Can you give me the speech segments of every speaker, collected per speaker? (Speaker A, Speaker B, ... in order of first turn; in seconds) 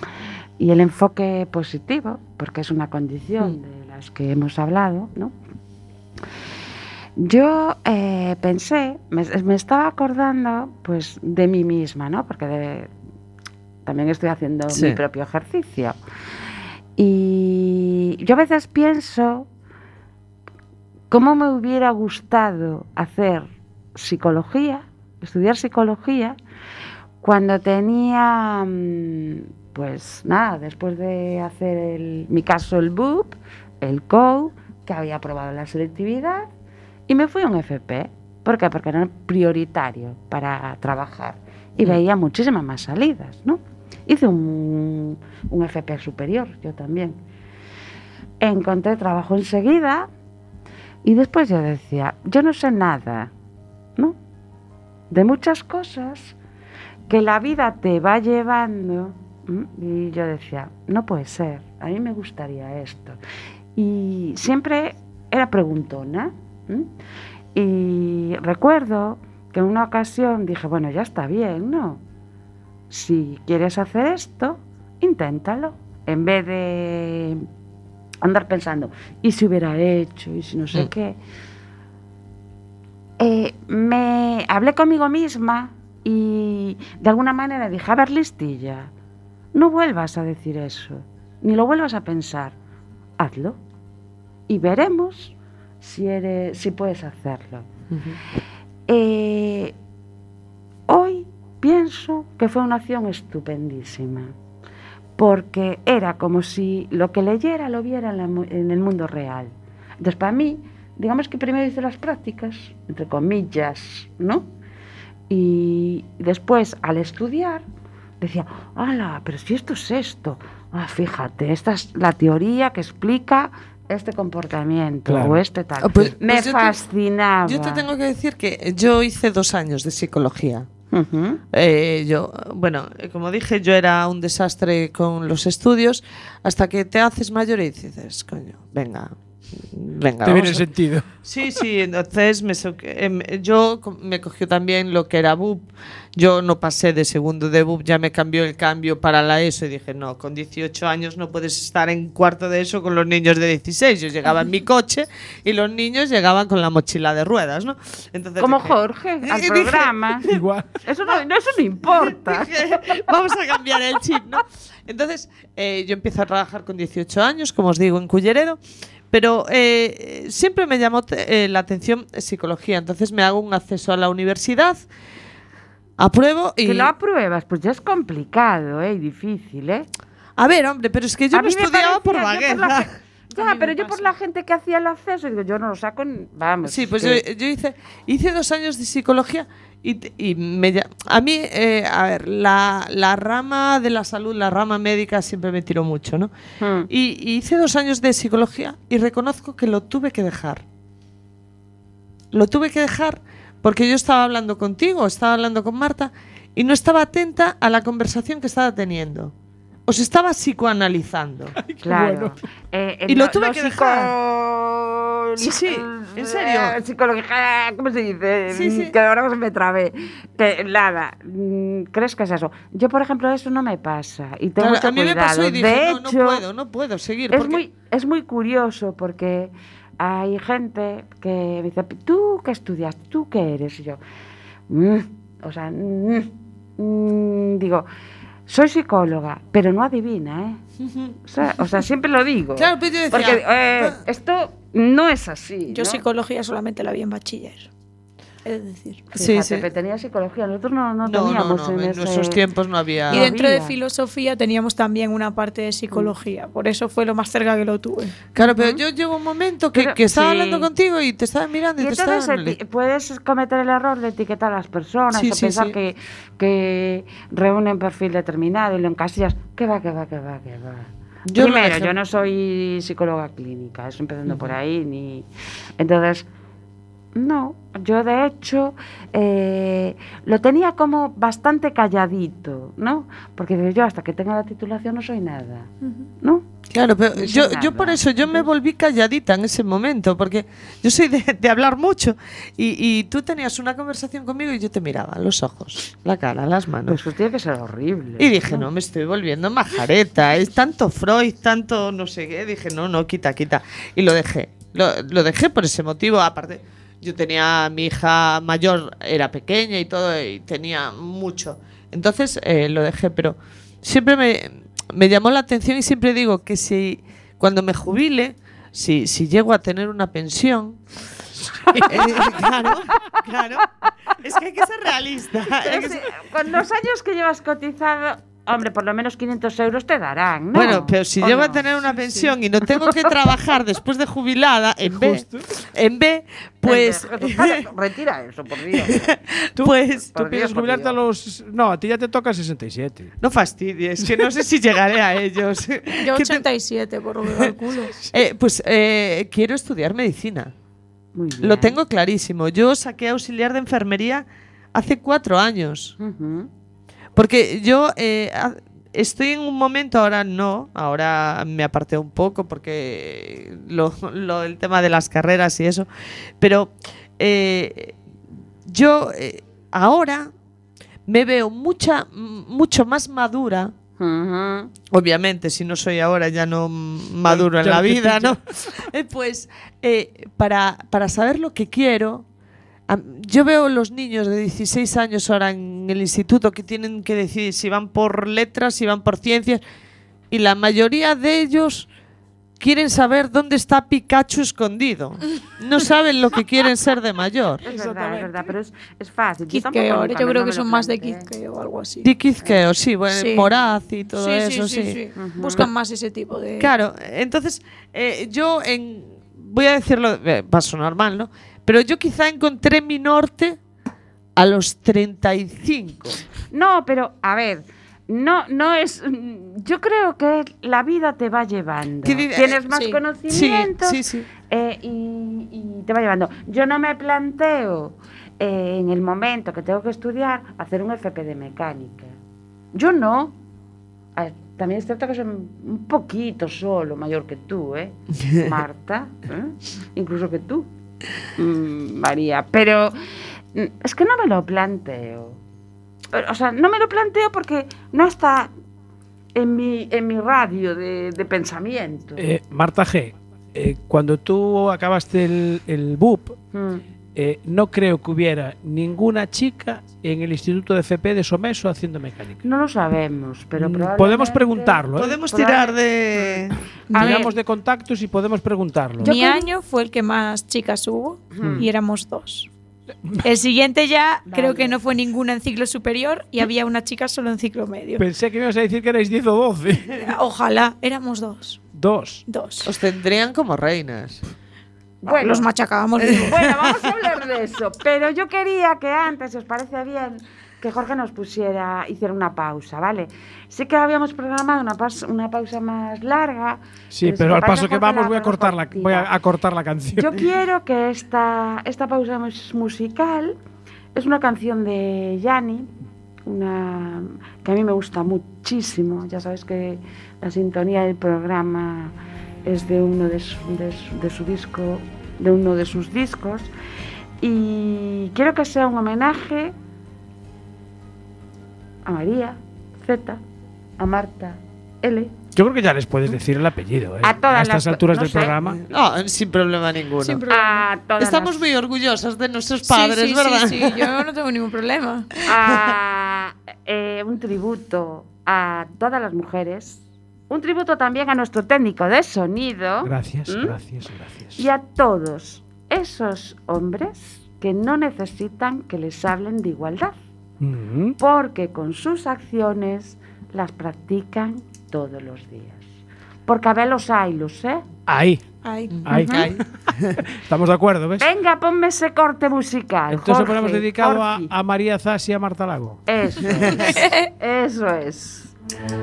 Speaker A: 0.6-5.3, 7.2-12.9, 13.8-16.0, 17.0-19.5, 21.1-26.4, 27.2-36.5, 37.1-47.2, 48.4-50.1, 51.0-53.3, 55.1-56.3, 57.1-63.2, 63.8-66.9, 67.5-72.0, 72.9-77.5, 78.2-81.2, 83.2-88.9, 89.5-92.5, 93.2-93.6, 94.5-97.7, 98.9-99.7, 100.9-104.3, 105.2-114.5, 115.3-117.6, 118.2-127.8, 130.9-131.4, 158.4-160.3, 160.8-163.0, 176.6-179.9, 181.3-187.2, 196.6-196.9, 211.8-226.4, 227.3-234.0, 234.7-237.9, 238.5-240.6, 241.2-246.0, 249.1-252.4, 253.1-253.7, 258.4-258.8, 259.7-260.7, 261.8-275.3, 275.8-276.2, 277.1-286.4, 287.1-288.5, 296.9-298.7, 325.6-331.7, 336.6-339.1, 340.1-341.0, 351.1-351.8, 356.0-356.5, 374.0-374.7, 397.6-401.3, 405.1-405.7, 416.5-432.1, 432.7-433.3, 434.1-440.7, 441.4-443.0, 443.5-445.4, 446.1-448.5, 449.3-452.2, 456.5-456.8, 462.4-467.3, 469.0-469.4, 471.3-471.7, 474.3-474.8, 485.0-485.5, 486.2-499.1, 499.9-503.4, 503.9-505.7, 506.2-516.5, 517.2-519.5, 521.8-523.2, 523.8-525.1, 527.0-528.3, 530.3-531.5, 535.2-543.6, 544.4-550.0, 551.0-555.6, 556.3-557.6, 558.9-559.3, 561.0-564.3, 565.9-568.3
Speaker B: 14.7-15.0, 97.9-98.2, 125.8-126.8, 127.5-130.7, 131.5-140.7, 141.2-160.4, 161.9-168.6, 169.1-174.8, 176.0-176.9, 180.4-182.9, 186.6-196.3, 196.9-200.6, 202.3-209.3, 209.9-211.6, 213.1-214.1, 215.4-216.8, 218.5-218.9, 224.6-227.6, 240.8-241.1, 242.6-244.0, 249.1-249.7, 251.0-253.3, 258.3-262.6, 265.1-265.7, 271.3-271.9, 274.3-274.5, 286.7-297.0, 298.2-320.8, 321.8-326.1, 330.5-337.6, 338.8-340.1, 343.2-346.4, 348.1-350.5, 351.4-355.9, 357.1-365.9, 366.4-368.0, 368.6-370.3, 371.1-373.7, 374.9-382.2, 382.9-389.6, 390.3-391.9, 392.6-397.7, 402.0-405.0, 406.6-413.6, 414.4-416.2, 422.0-422.6, 423.3-424.3, 464.9-466.6, 482.6-484.2, 486.0-486.7, 528.4-530.2, 531.0-534.0, 535.2-535.6, 558.7-560.0, 566.3-566.8
Speaker C: 125.1-125.4, 140.2-141.1, 160.3-160.8, 211.6-212.4, 321.5-322.4, 334.9-335.4, 339.6-343.1, 377.2-378.4, 397.6-398.4, 452.1-456.3, 457.1-462.4, 463.6-465.2, 466.9-469.1, 478.0-479.9, 481.7-482.2, 496.9-500.2, 525.3-528.6, 542.8-544.4, 550.4-551.0, 557.9-558.2, 558.8-559.4, 560.0-561.1, 562.9-565.8
Speaker D: 183.4-183.6, 245.7-247.7, 248.4-249.0, 253.1-258.1, 285.8-286.1, 346.0-348.1, 399.5-402.1, 403.1-403.5, 404.1-406.7, 422.7-423.0, 466.9-467.3, 469.0-472.5, 473.2-478.0, 479.9-481.6, 482.3-482.7, 485.0-486.3, 530.0-530.6, 532.6-535.1, 558.4-558.9, 566.7-567.1